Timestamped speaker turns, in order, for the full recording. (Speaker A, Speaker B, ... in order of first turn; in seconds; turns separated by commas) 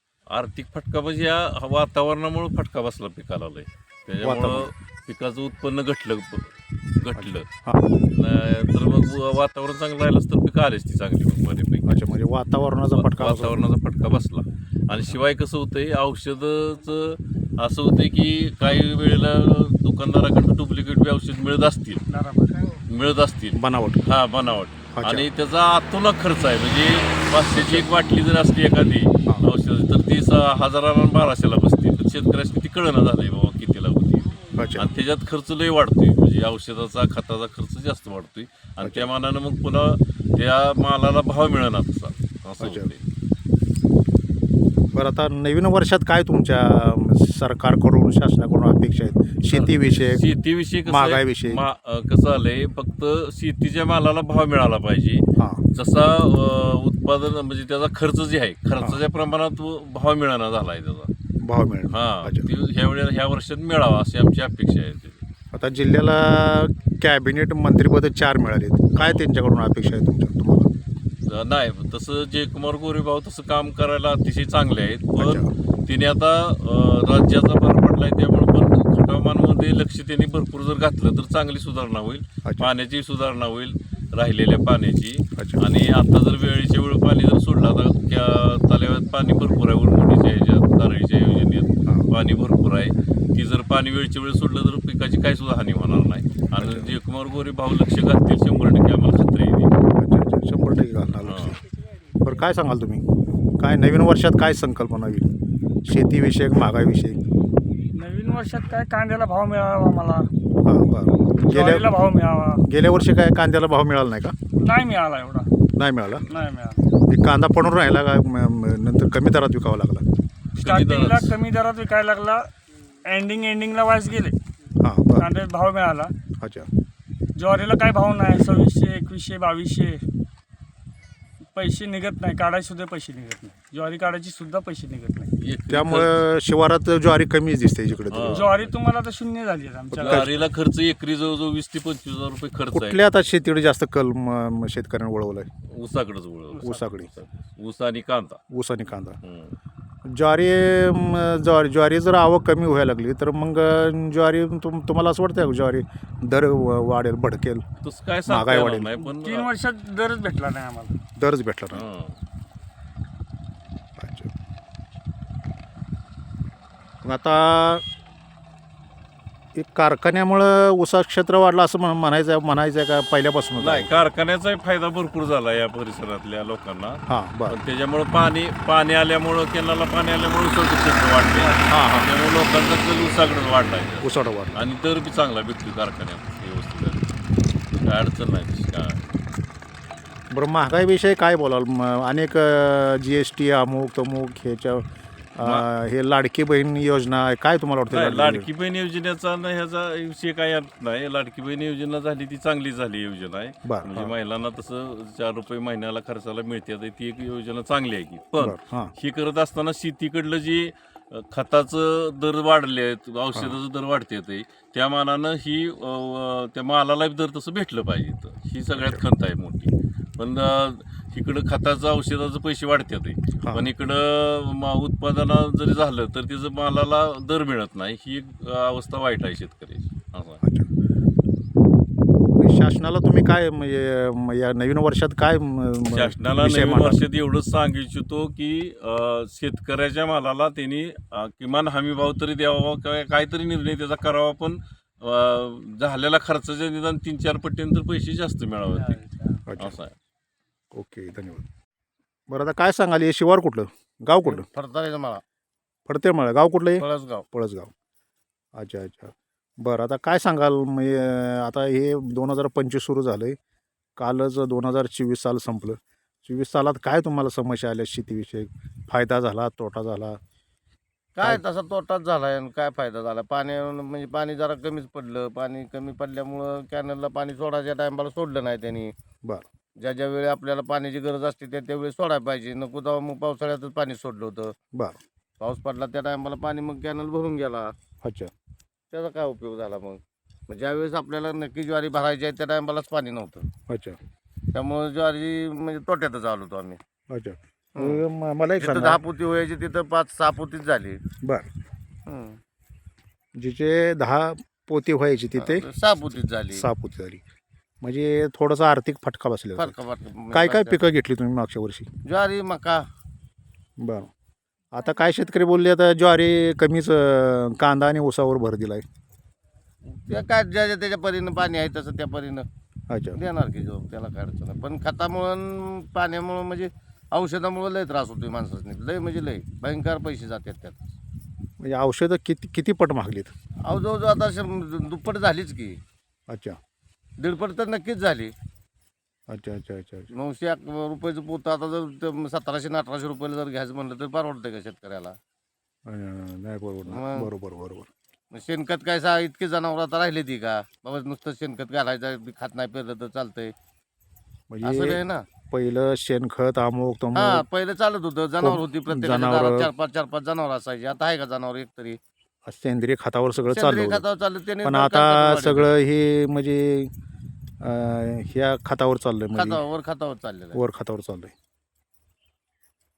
Speaker A: 0.3-7.5, Speaker B: 4.2-4.7, Speaker B: 7.1-7.9, Speaker A: 8.2-11.9, Speaker B: 11.8-13.6, Speaker A: 12.9-22.0, Speaker C: 22.1-22.6, Speaker A: 22.9-43.0, Speaker B: 23.5-24.1, Speaker B: 24.9-25.3, Speaker B: 27.5-27.9, Speaker B: 34.5-34.9, Speaker B: 38.8-39.1, Speaker B: 42.6-42.9, Speaker B: 44.9-50.2, Speaker A: 49.5-55.2, Speaker B: 50.8-51.6, Speaker B: 55.4-55.6, Speaker A: 55.7-61.1, Speaker B: 61.4-62.5, Speaker A: 61.9-65.2, Speaker B: 65.5-70.7, Speaker A: 69.0-69.2, Speaker A: 71.3-99.7, Speaker B: 75.2-75.5, Speaker B: 82.4-82.7, Speaker B: 85.4-85.7, Speaker B: 96.6-96.9, Speaker B: 100.0-101.6, Speaker A: 101.2-101.6, Speaker B: 102.2-103.0, Speaker B: 103.6-105.3, Speaker B: 105.8-107.2, Speaker C: 107.9-110.3, Speaker B: 110.6-111.9, Speaker C: 111.4-112.6, Speaker B: 112.7-114.3, Speaker C: 114.6-115.5, Speaker B: 115.7-116.2, Speaker C: 116.3-116.9, Speaker B: 117.1-120.0, Speaker C: 120.6-122.5, Speaker A: 120.6-121.4, Speaker C: 123.0-124.4, Speaker B: 124.8-125.3, Speaker C: 125.2-126.1, Speaker B: 126.4-126.7, Speaker C: 127.3-130.0, Speaker C: 131.5-135.3, Speaker A: 135.4-136.2, Speaker B: 135.7-138.5, Speaker A: 138.1-138.8, Speaker C: 138.3-140.4, Speaker B: 139.9-140.4, Speaker A: 140.0-143.0, Speaker B: 142.7-145.5, Speaker A: 145.7-148.4, Speaker C: 146.5-146.9, Speaker B: 146.6-147.1, Speaker B: 148.5-149.2, Speaker A: 149.2-149.6, Speaker B: 150.0-157.6, Speaker A: 157.8-159.5, Speaker B: 158.2-158.9, Speaker C: 159.1-160.9, Speaker B: 161.2-161.8, Speaker A: 161.7-162.2, Speaker B: 164.0-164.3, Speaker B: 167.0-167.8, Speaker B: 169.5-173.9, Speaker A: 173.6-187.1, Speaker B: 177.1-177.6, Speaker B: 181.7-182.1, Speaker B: 184.0-184.6, Speaker A: 187.8-189.0, Speaker B: 190.3-198.5, Speaker A: 195.4-195.7, Speaker A: 197.9-230.4, Speaker B: 203.6-204.1, Speaker B: 208.4-208.9, Speaker B: 218.7-219.0, Speaker B: 223.4-223.7, Speaker B: 230.4-230.7, Speaker B: 232.4-237.0, Speaker A: 235.9-249.0, Speaker D: 248.7-249.2, Speaker B: 249.5-249.8, Speaker A: 249.6-249.9, Speaker B: 250.7-251.4, Speaker B: 252.3-254.4, Speaker D: 254.2-255.2, Speaker B: 255.8-257.7, Speaker D: 256.8-257.2, Speaker B: 258.5-263.4, Speaker B: 264.0-270.2, Speaker D: 271.1-278.9, Speaker D: 279.8-284.5, Speaker D: 285.4-287.7, Speaker B: 288.0-288.3, Speaker D: 288.9-293.4, Speaker B: 293.7-294.0, Speaker D: 294.5-296.8, Speaker B: 297.1-299.0, Speaker D: 297.8-298.0, Speaker D: 298.6-301.0, Speaker D: 302.1-302.4, Speaker B: 303.4-305.6, Speaker D: 305.4-306.6, Speaker B: 306.5-307.2, Speaker B: 307.8-309.7, Speaker D: 309.6-310.8, Speaker B: 310.3-311.9, Speaker D: 312.1-312.8, Speaker B: 313.8-314.1, Speaker B: 314.7-318.8, Speaker D: 319.9-322.4, Speaker B: 322.9-323.2, Speaker D: 323.1-330.9, Speaker B: 331.6-333.3, Speaker D: 333.6-335.8, Speaker B: 336.3-336.6, Speaker D: 337.2-338.3, Speaker B: 339.3-340.1, Speaker D: 340.1-345.1, Speaker B: 345.9-347.9, Speaker D: 346.9-347.3, Speaker D: 348.3-353.5, Speaker B: 354.5-355.0, Speaker D: 354.6-355.2, Speaker B: 355.5-357.4, Speaker D: 357.1-362.0, Speaker B: 358.4-359.7, Speaker B: 362.4-364.0, Speaker D: 363.4-365.7, Speaker B: 364.6-366.9, Speaker B: 367.6-369.6, Speaker D: 369.4-370.6, Speaker B: 370.5-371.3